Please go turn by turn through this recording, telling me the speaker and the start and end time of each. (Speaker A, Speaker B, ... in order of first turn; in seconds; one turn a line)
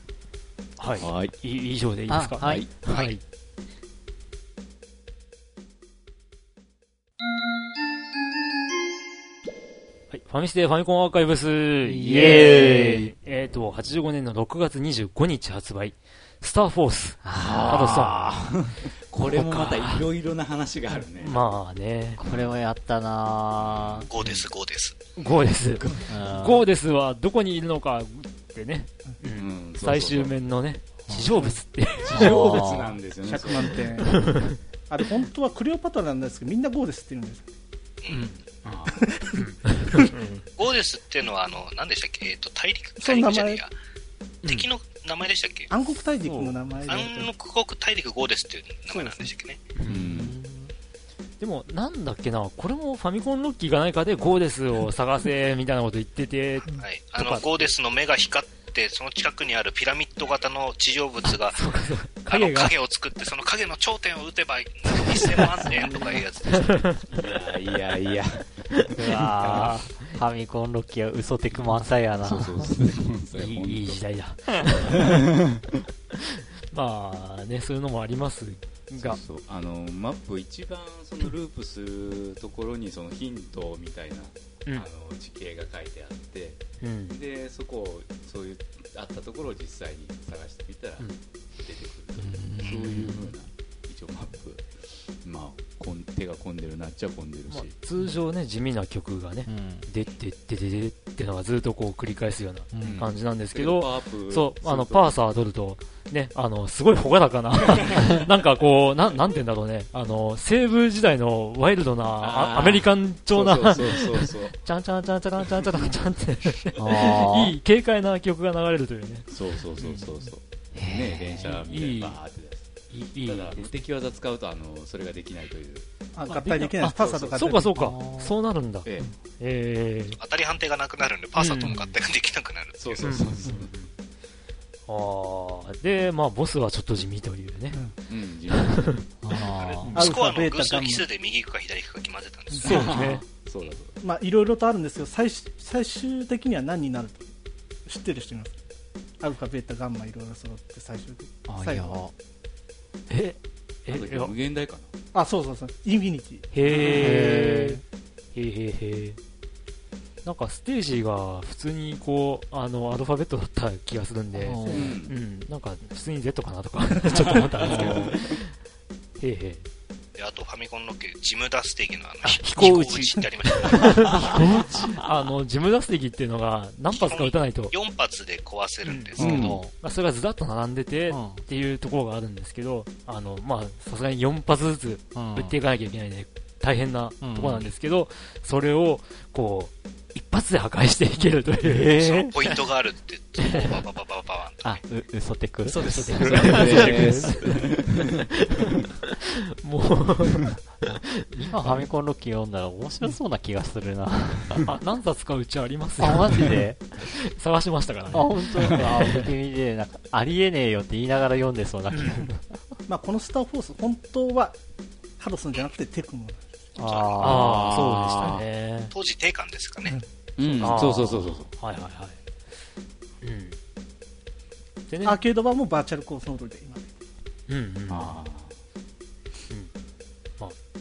Speaker A: 0.8-3.2
Speaker B: 1.0-1.3
Speaker C: 2.1-2.7
Speaker B: 2.4-2.7
Speaker A: 10.1-18.3
Speaker C: 11.8-13.1
Speaker C: 17.2-18.5
Speaker B: 17.4-21.4
Speaker A: 19.3-20.1
Speaker A: 21.2-22.2
Speaker C: 22.2-24.1
Speaker B: 22.2-22.6
Speaker B: 23.6-24.1
Speaker D: 24.1-25.0
Speaker A: 25.2-32.6
Speaker B: 25.8-26.1
Speaker C: 26.1-26.7
Speaker B: 29.4-30.3
Speaker C: 31.1-31.5
Speaker B: 32.0-33.8
Speaker C: 32.1-33.0
Speaker E: 33.2-34.4
Speaker A: 34.0-34.6
Speaker E: 34.9-37.5
Speaker D: 38.0-38.3
Speaker A: 38.1-38.8
Speaker B: 38.6-39.2
Speaker E: 39.0-39.4
Speaker A: 39.3-40.5
Speaker D: 40.6-43.7
Speaker E: 43.0-43.6
Speaker A: 44.4-44.7
Speaker D: 44.5-45.7
Speaker E: 45.7-47.3
Speaker A: 46.2-46.5
Speaker D: 46.9-49.6
Speaker A: 49.8-50.1
Speaker B: 49.9-50.4
Speaker C: 50.0-50.7
Speaker A: 51.4-57.7
Speaker D: 56.7-61.7
Speaker A: 61.3-62.8
Speaker D: 62.3-67.0
Speaker A: 66.5-67.1
Speaker B: 67.1-68.6
Speaker A: 68.7-70.1
Speaker C: 68.9-72.7
Speaker B: 69.4-69.8
Speaker B: 71.5-74.0
Speaker A: 73.3-75.2
Speaker B: 74.7-75.6
Speaker A: 76.7-79.2
Speaker B: 79.0-97.7
Speaker A: 86.8-87.2
Speaker C: 92.2-93.3
Speaker A: 97.5-120.0
Speaker C: 99.5-99.9
Speaker C: 102.7-103.1
Speaker B: 102.8-105.2
Speaker B: 107.7-108.2
Speaker B: 112.2-114.6
Speaker B: 115.6-115.8
Speaker C: 116.8-117.6
Speaker B: 119.3-125.9
Speaker C: 120.8-121.7
Speaker A: 121.5-122.2
Speaker A: 122.9-123.7
Speaker E: 126.1-127.7
Speaker A: 126.4-130.2
Speaker B: 126.9-127.4
Speaker C: 127.7-128.3
Speaker B: 128.8-129.1
Speaker D: 130.2-133.1
Speaker A: 131.4-131.9
Speaker B: 132.8-133.7
Speaker A: 133.0-133.9
Speaker A: 134.9-137.8
Speaker B: 138.1-139.1
Speaker A: 138.5-139.1
Speaker C: 139.2-140.0
Speaker A: 139.8-140.1
Speaker D: 139.9-142.8
Speaker E: 139.9-141.1
Speaker E: 142.5-142.9
Speaker A: 142.6-143.2
Speaker B: 142.6-144.0
Speaker E: 144.0-147.3
Speaker E: 147.9-148.6
Speaker E: 149.2-152.0
Speaker C: 151.5-152.1
Speaker A: 153.1-154.3
Speaker B: 153.9-154.9
Speaker E: 155.1-156.5
Speaker A: 156.5-157.8
Speaker C: 156.7-157.8
Speaker A: 158.3-159.2
Speaker A: 160.2-168.5
Speaker C: 164.3-165.0
Speaker B: 164.7-165.1
Speaker B: 167.6-168.2
Speaker C: 167.6-168.1
Speaker A: 169.2-169.7
Speaker D: 170.2-174.1
Speaker A: 172.2-177.7
Speaker C: 174.1-175.0
Speaker D: 176.9-179.6
Speaker A: 178.8-192.0
Speaker C: 179.2-179.7
Speaker B: 179.2-179.6
Speaker C: 181.1-181.4
Speaker C: 185.1-185.6
Speaker C: 187.2-187.7
Speaker C: 191.6-192.6
Speaker D: 192.0-194.8
Speaker C: 194.6-197.4
Speaker A: 195.7-198.9
Speaker B: 195.7-198.2
Speaker A: 199.6-201.8
Speaker C: 200.9-204.7
Speaker A: 204.6-209.3
Speaker C: 206.0-206.9
Speaker C: 208.1-212.6
Speaker A: 211.9-212.3
Speaker E: 212.9-214.6
Speaker E: 215.2-216.7
Speaker C: 216.8-217.8
Speaker D: 216.8-217.2
Speaker A: 217.2-218.9
Speaker B: 217.2-218.4
Speaker D: 218.9-220.0
Speaker B: 220.4-221.5
Speaker C: 220.5-221.3
Speaker A: 220.6-222.2
Speaker A: 223.2-223.6
Speaker A: 224.9-225.2
Speaker E: 225.0-226.9
Speaker A: 227.5-228.2
Speaker B: 227.9-228.5